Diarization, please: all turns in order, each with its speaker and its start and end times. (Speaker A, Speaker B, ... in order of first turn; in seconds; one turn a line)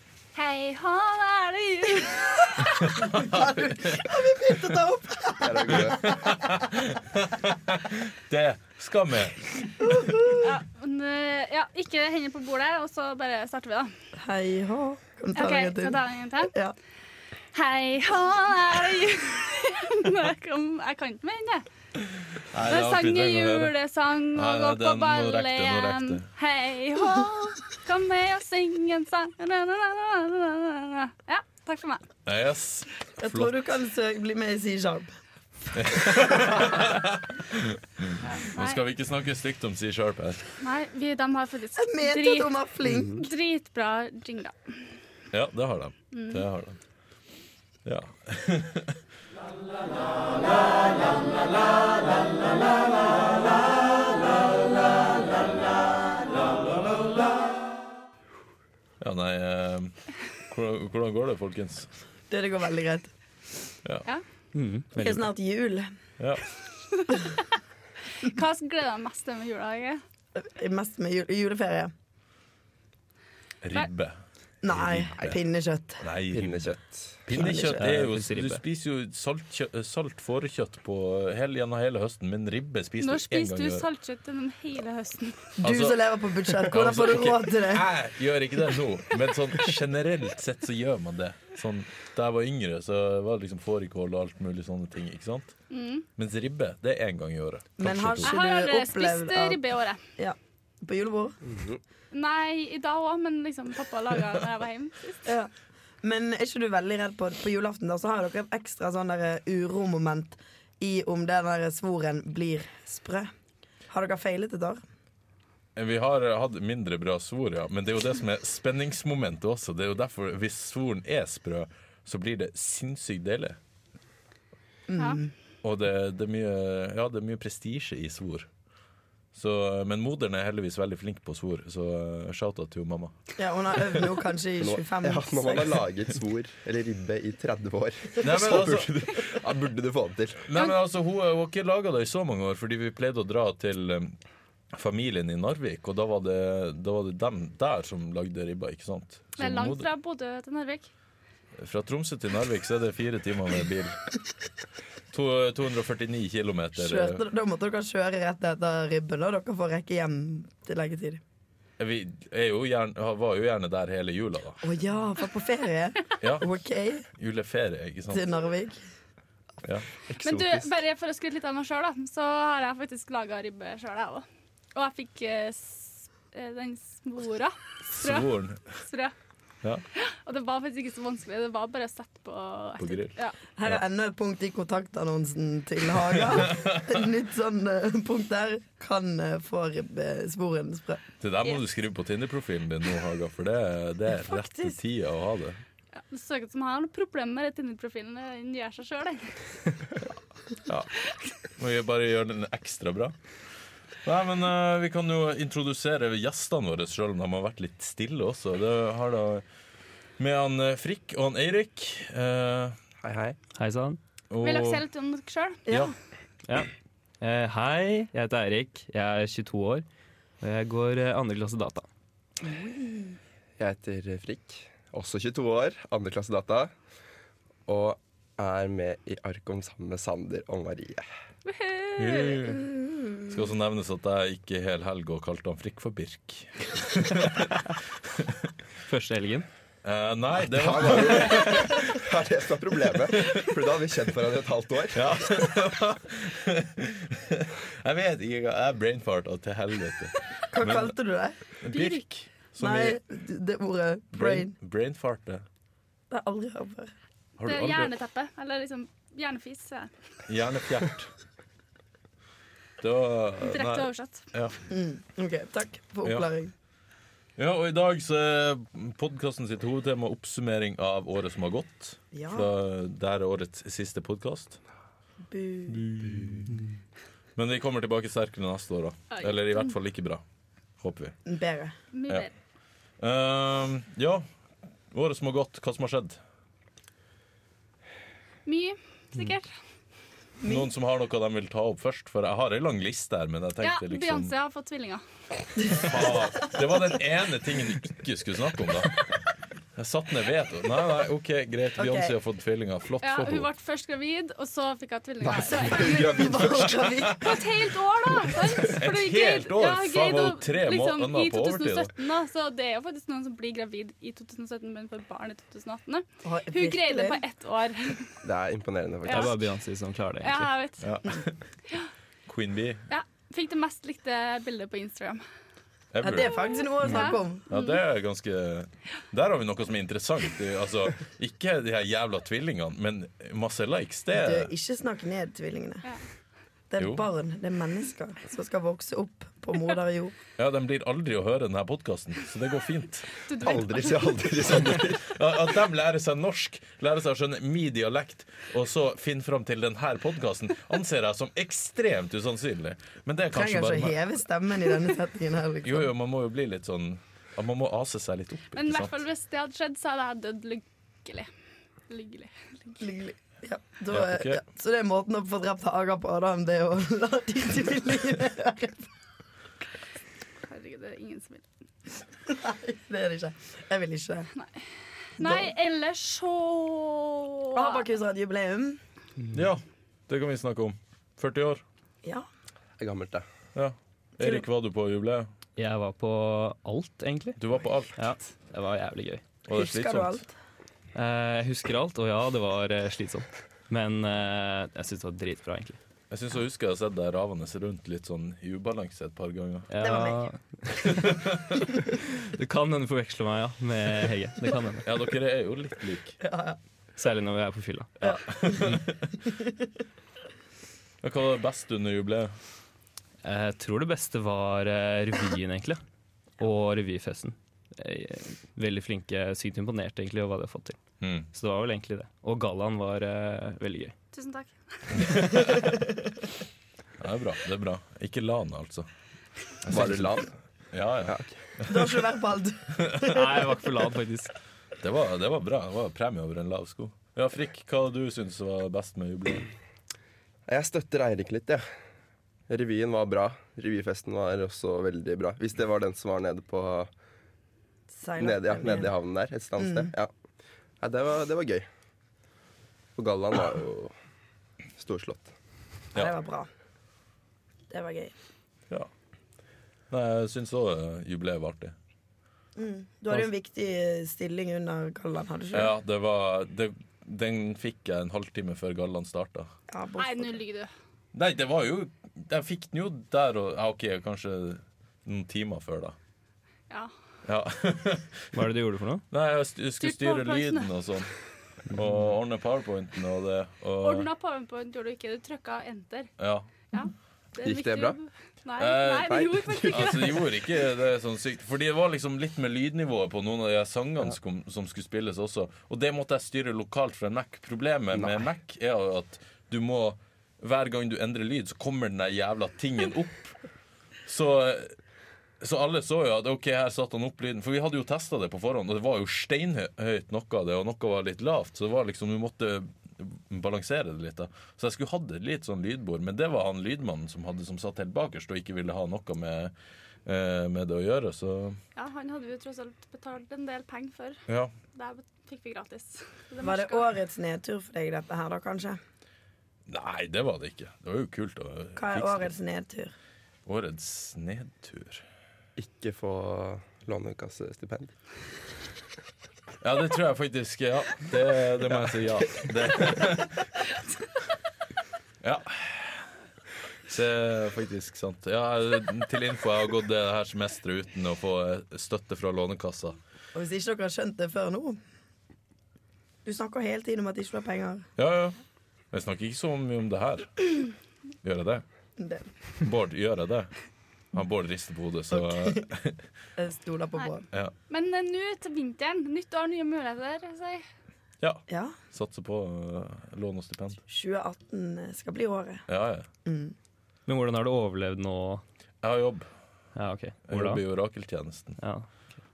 Speaker A: 0.3-2.8
Speaker B: 2.6-4.0
Speaker C: 3.1-6.1
Speaker D: 5.4-6.3
Speaker B: 5.7-9.7
Speaker C: 9.8-10.6
Speaker A: 10.4-13.9
Speaker C: 14.2-16.8
Speaker A: 15.3-16.5
Speaker A: 17.5-21.6
Speaker B: 22.5-23.7
Speaker A: 22.6-32.1
Speaker B: 24.4-26.2
Speaker B: 32.3-33.5
Speaker C: 33.2-35.1
Speaker B: 35.8-40.5
Speaker A: 38.2-38.8
Speaker A: 40.6-42.5
Speaker C: 41.8-43.3
Speaker A: 43.2-44.9
Speaker B: 45.3-46.8
Speaker A: 46.1-46.5
Speaker B: 47.9-49.0
Speaker B: 59.0-61.9
Speaker C: 62.3-63.1
Speaker E: 64.5-65.3
Speaker C: 65.0-65.9
Speaker A: 67.0-67.4
Speaker A: 68.2-70.0
Speaker C: 70.4-71.9
Speaker B: 73.6-74.2
Speaker C: 74.6-76.0
Speaker B: 74.7-75.4
Speaker B: 76.0-83.8
Speaker D: 76.3-77.3
Speaker E: 77.3-78.6
Speaker C: 77.4-77.8
Speaker A: 83.0-85.5
Speaker C: 85.6-87.9
Speaker B: 85.6-86.0
Speaker B: 86.5-95.5
Speaker A: 95.7-96.1
Speaker B: 96.2-98.3
Speaker C: 97.8-101.4
Speaker A: 98.2-100.0
Speaker D: 101.4-101.8
Speaker A: 102.1-105.3
Speaker C: 105.2-105.5
Speaker C: 106.0-113.3
Speaker C: 113.9-114.8
Speaker B: 115.8-123.6
Speaker C: 124.9-125.3
Speaker B: 125.6-128.5
Speaker B: 129.3-133.2
Speaker C: 133.4-135.8
Speaker D: 134.6-140.5
Speaker B: 138.2-139.3
Speaker B: 140.5-144.2
Speaker B: 144.7-149.9
Speaker A: 149.4-150.9
Speaker B: 151.6-154.0
Speaker B: 155.1-157.2
Speaker C: 156.8-161.2
Speaker B: 161.8-164.6
Speaker C: 164.6-167.1
Speaker B: 166.2-166.5
Speaker B: 167.1-168.2
Speaker C: 168.1-168.8
Speaker D: 170.1-170.8
Speaker A: 170.2-179.2
Speaker B: 177.9-178.8
Speaker A: 179.9-183.4
Speaker B: 182.8-183.8
Speaker C: 183.6-191.0
Speaker B: 185.9-186.9
Speaker B: 191.2-195.6
Speaker C: 194.2-194.8
Speaker A: 196.0-199.5
Speaker B: 200.7-203.2
Speaker B: 204.0-209.4
Speaker B: 210.2-212.8
Speaker D: 213.0-213.4
Speaker E: 213.6-214.0
Speaker B: 214.3-214.8
Speaker A: 214.4-215.7
Speaker C: 215.7-215.9
Speaker E: 216.5-219.8
Speaker E: 220.4-221.9
Speaker C: 222.4-223.2
Speaker D: 223.6-226.7
Speaker D: 227.7-231.1
Speaker A: 231.5-232.6
Speaker B: 232.0-238.5
Speaker E: 238.9-239.5
Speaker B: 239.8-242.0
Speaker D: 240.5-245.2
Speaker B: 244.9-250.9
Speaker C: 250.5-251.4
Speaker B: 251.6-253.0
Speaker A: 251.7-252.0
Speaker C: 252.6-254.6
Speaker B: 254.1-255.4
Speaker C: 256.1-256.9
Speaker B: 257.4-257.9
Speaker A: 257.4-259.9
Speaker B: 260.3-261.1
Speaker B: 262.8-264.6
Speaker A: 263.4-264.3
Speaker C: 264.7-266.5
Speaker B: 267.4-274.6
Speaker C: 272.1-272.5
Speaker C: 275.3-276.0
Speaker B: 275.8-276.6
Speaker B: 277.4-280.2
Speaker A: 279.1-279.8
Speaker B: 280.8-281.2
Speaker C: 281.3-281.8
Speaker A: 281.9-282.3
Speaker B: 283.0-284.3
Speaker B: 284.9-286.2
Speaker A: 288.5-289.5
Speaker C: 290.4-290.7
Speaker B: 290.4-294.3
Speaker A: 293.6-295.0
Speaker B: 295.7-299.1
Speaker B: 299.8-303.5
Speaker C: 301.8-302.1
Speaker A: 303.0-306.2
Speaker D: 305.2-306.9
Speaker C: 305.5-307.2
Speaker A: 307.2-318.2
Speaker B: 308.8-311.9
Speaker C: 316.2-317.2
Speaker D: 318.2-319.4
Speaker A: 319.1-319.4
Speaker E: 319.1-320.5
Speaker A: 320.2-320.9
Speaker B: 320.8-321.4
Speaker B: 322.3-322.8
Speaker A: 322.9-325.2
Speaker B: 325.9-326.6
Speaker C: 326.0-327.5
Speaker A: 326.1-327.8
Speaker E: 326.8-327.1
Speaker B: 327.5-334.5
Speaker C: 334.1-335.9
Speaker C: 336.7-340.1
Speaker B: 336.8-337.0
Speaker B: 340.4-343.2
Speaker A: 343.2-344.6
Speaker D: 343.4-345.1
Speaker B: 344.7-354.0
Speaker C: 353.3-355.9
Speaker B: 355.6-359.0
Speaker A: 358.5-361.3
Speaker A: 361.9-362.8
Speaker C: 362.8-368.9
Speaker B: 363.9-364.4
Speaker A: 370.5-371.5
Speaker C: 372.3-374.3
Speaker A: 375.2-377.8
Speaker C: 375.2-375.5
Speaker C: 377.5-378.8
Speaker B: 379.3-381.6
Speaker D: 382.8-383.3
Speaker B: 383.6-385.3
Speaker E: 385.6-387.4
Speaker B: 387.4-388.1
Speaker E: 388.0-389.2
Speaker B: 389.5-390.2
Speaker C: 389.5-390.3
Speaker E: 390.9-395.8
Speaker B: 396.1-399.7
Speaker E: 399.7-401.2
Speaker C: 399.8-400.3
Speaker B: 401.0-401.6
Speaker E: 402.0-404.9
Speaker B: 404.8-406.2
Speaker C: 406.2-406.6
Speaker E: 407.0-408.1
Speaker C: 408.0-408.7
Speaker B: 408.1-409.1
Speaker B: 411.0-412.4
Speaker E: 413.2-415.8
Speaker E: 416.4-420.8
Speaker B: 421.0-421.3
Speaker E: 421.3-423.9
Speaker A: 424.1-425.0
Speaker B: 424.9-425.7
Speaker B: 427.0-428.9
Speaker B: 429.6-431.9
Speaker D: 429.7-430.3
Speaker D: 431.1-431.4
Speaker C: 431.7-433.3
Speaker E: 433.1-434.3
Speaker B: 434.8-439.5
Speaker D: 440.5-441.6
Speaker D: 442.5-446.9
Speaker C: 447.9-448.9
Speaker D: 448.2-450.1
Speaker C: 449.6-449.9
Speaker D: 450.8-451.7
Speaker D: 453.0-453.9
Speaker D: 454.8-455.3
Speaker C: 455.9-456.5
Speaker C: 457.7-458.1
Speaker B: 459.9-461.8
Speaker C: 462.6-465.7
Speaker B: 465.5-469.5
Speaker C: 469.7-470.4
Speaker A: 470.0-470.7
Speaker B: 471.1-476.0
Speaker B: 477.2-478.3
Speaker E: 478.3-479.1
Speaker B: 479.1-481.1
Speaker A: 479.8-480.7
Speaker E: 481.7-482.0
Speaker B: 481.7-484.1
Speaker A: 483.8-486.1
Speaker B: 486.2-486.5
Speaker A: 486.7-490.5
Speaker D: 487.4-488.0
Speaker B: 488.6-503.4
Speaker D: 489.1-489.9
Speaker D: 497.9-498.3
Speaker B: 504.1-504.8
Speaker B: 505.4-519.5
Speaker B: 520.0-521.6
Speaker A: 521.8-526.9
Speaker B: 524.3-524.5
Speaker C: 526.4-528.8
Speaker B: 529.7-532.3
Speaker C: 531.8-532.9
Speaker B: 533.5-535.0
Speaker D: 535.6-537.9
Speaker B: 539.6-543.5
Speaker B: 545.2-546.0
Speaker B: 546.9-553.0
Speaker C: 553.4-554.8
Speaker C: 556.2-557.9
Speaker B: 558.0-558.4
Speaker B: 558.9-560.7
Speaker B: 561.2-561.6
Speaker C: 562.0-562.3
Speaker B: 562.6-566.0
Speaker C: 565.1-565.6
Speaker C: 566.4-567.3
Speaker A: 567.7-570.6
Speaker B: 571.2-573.8
Speaker C: 571.5-571.8
Speaker C: 573.9-575.7
Speaker B: 575.7-576.1
Speaker C: 576.2-576.5
Speaker E: 577.1-578.4
Speaker B: 578.8-579.3
Speaker E: 579.8-580.6
Speaker B: 580.3-581.6
Speaker E: 581.6-581.9